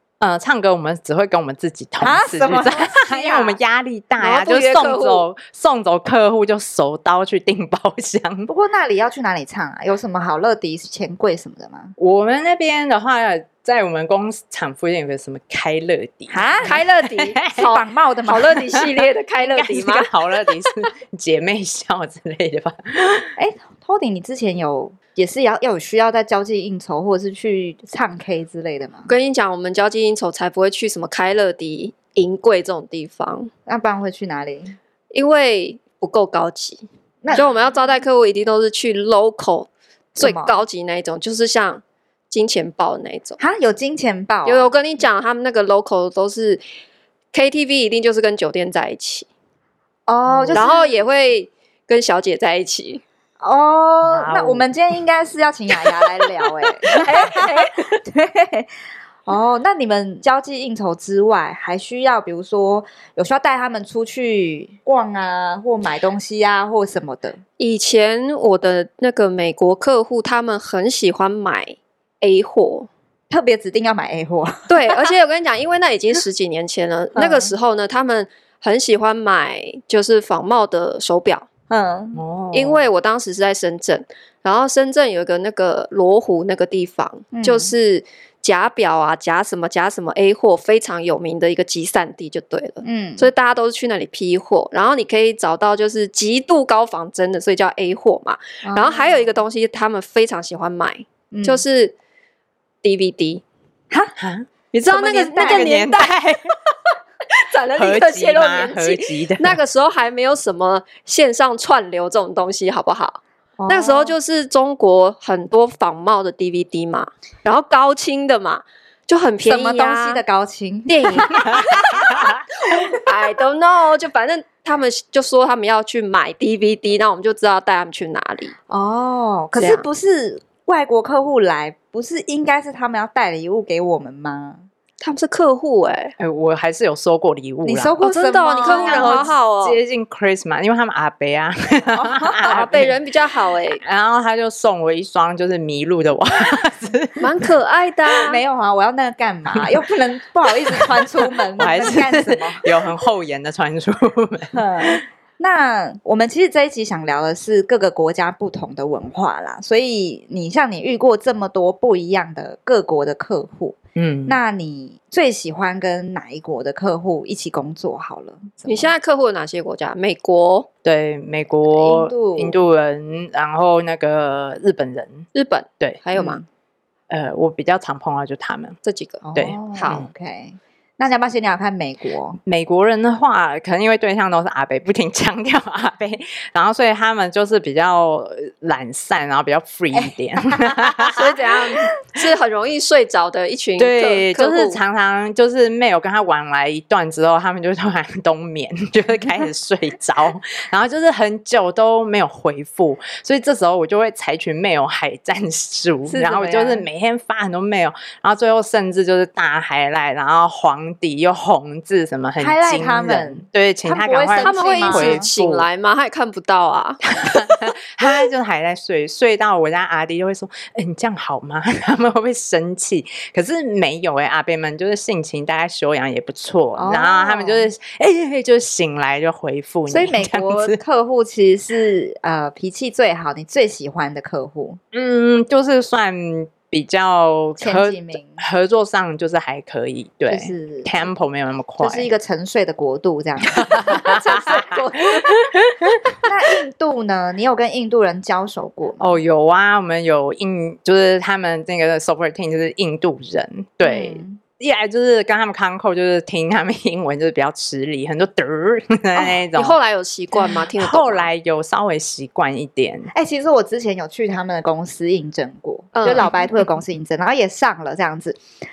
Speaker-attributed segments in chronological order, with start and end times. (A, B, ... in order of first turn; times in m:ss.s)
0:00.2-0:08.5 A
0:02.0-0:03.6 B
0:04.2-0:05.3 C
0:08.5-0:12.0 B
0:12.0-0:17.7 A
0:16.3-0:16.8 B
0:16.6-0:20.1 C
0:17.6-0:18.6 B
0:19.5-0:23.3 A
0:23.4-0:29.1 B
0:29.1-0:33.5 C
0:33.7-0:34.8 B
0:35.1-0:43.4 C
0:37.2-0:37.5 B
0:40.2-0:40.6 B
0:43.4-0:44.7 B
0:44.4-0:46.6 C
0:47.3-0:49.3 C
0:50.1-0:50.9 B
0:50.3-0:50.7 A
0:50.5-0:53.0 C
0:53.4-0:58.7 B
0:54.0-0:54.7 A
0:56.9-0:57.9 C
0:59.3-1:07.4 B
1:07.6-1:12.9 C
1:13.3-1:15.1 B
1:14.7-1:21.5 C
1:17.2-1:17.5 B
1:21.7-1:22.2 B
1:22.2-1:22.8 A
1:22.5-1:42.0 C
1:27.3-1:27.7 B
1:32.8-1:33.3 B
1:38.6-1:39.3 B
1:41.3-1:41.6 B
1:42.8-1:43.4 C
1:44.2-1:46.4 A
1:44.7-1:46.7 C
1:45.2-1:45.8 B
1:47.3-2:00.2 C
1:47.7-1:49.6 A
1:53.6-1:54.2 B
1:59.4-2:02.2 B
2:00.9-2:02.0 C
2:02.6-2:08.5 C
2:08.7-2:14.6 B
2:09.6-2:09.8 C
2:15.0-2:16.1 C
2:16.2-2:17.9 A
2:17.6-2:19.3 B
2:18.0-2:19.8 C
2:18.6-2:23.0 A
2:21.9-2:22.8 B
2:22.4-2:23.8 C
2:23.8-2:27.3 A
2:27.2-2:28.4 C
2:28.2-2:32.9 B
2:30.7-2:35.0 A
2:34.5-2:43.8 B
2:44.0-2:44.4 A
2:44.3-2:48.9 B
2:48.7-2:50.7 C
2:50.8-2:55.3 A
2:51.7-2:52.6 B
2:55.3-2:56.4 C
2:57.1-2:58.8 A
2:58.8-3:00.1 C
2:59.2-3:02.4 B
2:59.4-3:00.1 A
3:02.5-3:11.3 A
3:09.9-3:11.3 B
3:11.2-3:14.8 C
3:13.8-3:35.7 A
3:26.1-3:26.9 B
3:32.4-3:35.2 B
3:34.4-3:37.4 C
3:37.1-3:50.8 A
3:46.8-3:47.7 B
3:49.9-3:54.8 B
3:54.9-4:02.1 A
3:57.6-3:58.4 B
4:00.3-4:01.1 B
4:01.8-4:04.5 B
4:03.5-4:06.1 A
4:03.8-4:05.4 C
4:06.2-4:09.2 B
4:09.0-4:19.8 A
4:13.8-4:14.4 B
4:19.6-4:21.3 C
4:20.8-4:23.1 A
4:23.1-4:28.4 B
4:25.9-4:26.3 C